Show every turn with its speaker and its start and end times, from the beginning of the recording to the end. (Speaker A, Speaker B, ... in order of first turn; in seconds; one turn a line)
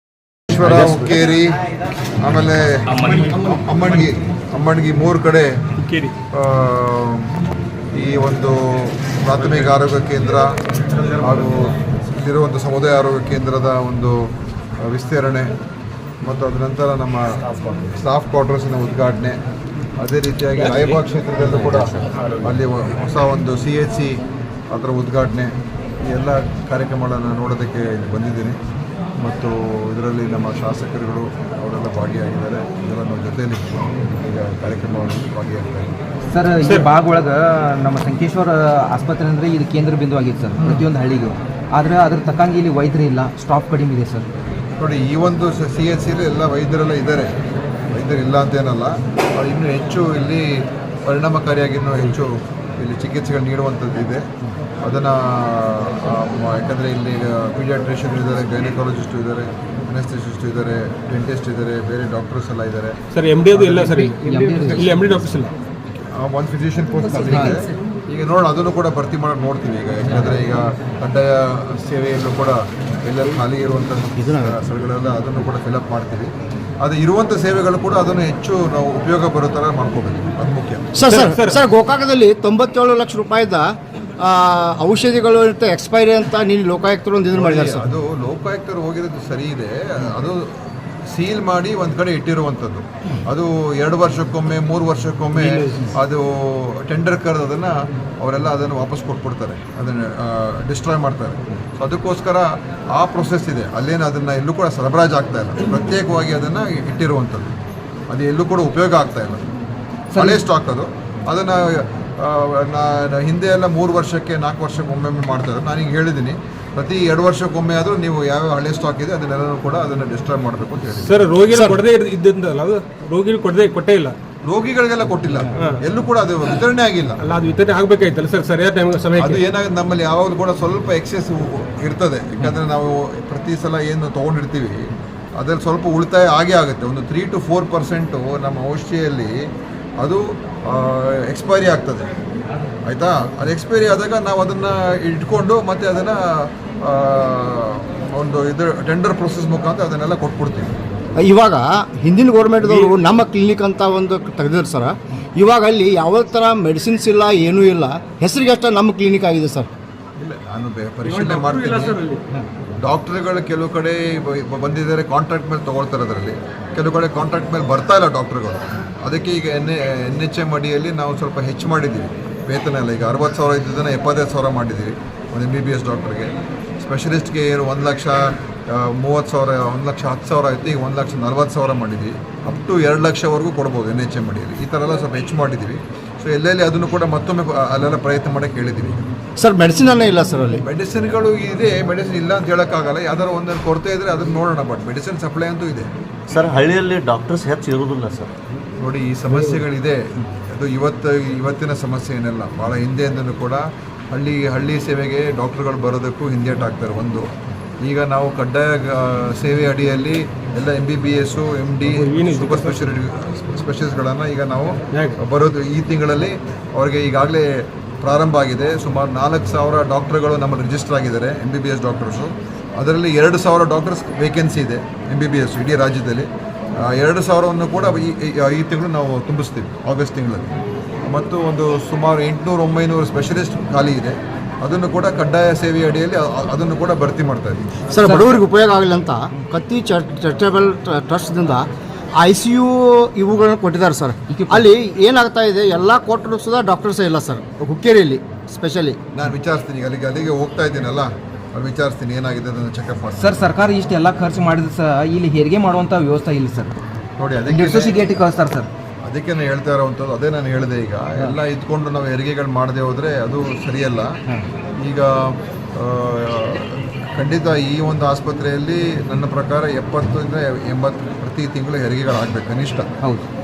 Speaker A: 0.5-1.6
Speaker B: 0.6-1.0
Speaker A: 2.2-5.5
Speaker B: 5.8-6.1
Speaker A: 6.3-7.3
Speaker A: 7.9-10.5
Speaker A: 11.1-14.2
Speaker A: 14.8-15.5
Speaker A: 16.2-17.2
Speaker A: 17.9-19.4
Speaker A: 20.0-25.5
Speaker B: 20.6-21.0
Speaker A: 26.0-28.6
Speaker A: 29.2-36.0
Speaker C: 36.3-44.3
Speaker A: 44.8-47.3
Speaker A: 47.9-54.3
Speaker A: 54.8-63.0
Speaker B: 63.1-65.5
Speaker A: 63.5-64.1
Speaker C: 64.2-65.0
Speaker A: 65.9-80.9
Speaker C: 67.1-67.7
Speaker D: 74.2-74.5
Speaker D: 80.9-83.7
Speaker B: 81.0-81.6
Speaker D: 84.2-87.8
Speaker A: 87.3-107.5
Speaker B: 95.3-95.9
Speaker A: 108.1-109.4
Speaker C: 110.1-110.4
Speaker A: 110.1-121.2
Speaker B: 120.9-124.2
Speaker A: 124.4-127.2
Speaker B: 127.2-129.4
Speaker A: 129.2-139.4
Speaker A: 140.0-142.1
Speaker A: 142.8-150.7
Speaker D: 151.2-159.7
Speaker B: 152.6-152.9
Speaker A: 160.2-162.0
Speaker B: 161.0-162.2
Speaker A: 162.8-189.0
Speaker D: 189.4-190.6
Speaker A: 190.6-195.9
Speaker E: 196.3-198.3
Speaker A: 198.8-207.3
Speaker A: 207.8-226.3
Speaker B: 211.9-212.9
Speaker B: 214.9-215.2
Speaker A: 226.8-237.7
Speaker D: 237.9-241.6
Speaker C: 237.9-238.4
Speaker D: 242.2-249.0
Speaker C: 244.3-244.7
Speaker A: 249.1-253.5
Speaker C: 253.2-256.7
Speaker A: 257.2-258.2
Speaker C: 257.5-258.7
Speaker A: 259.0-264.1
Speaker A: 264.8-272.9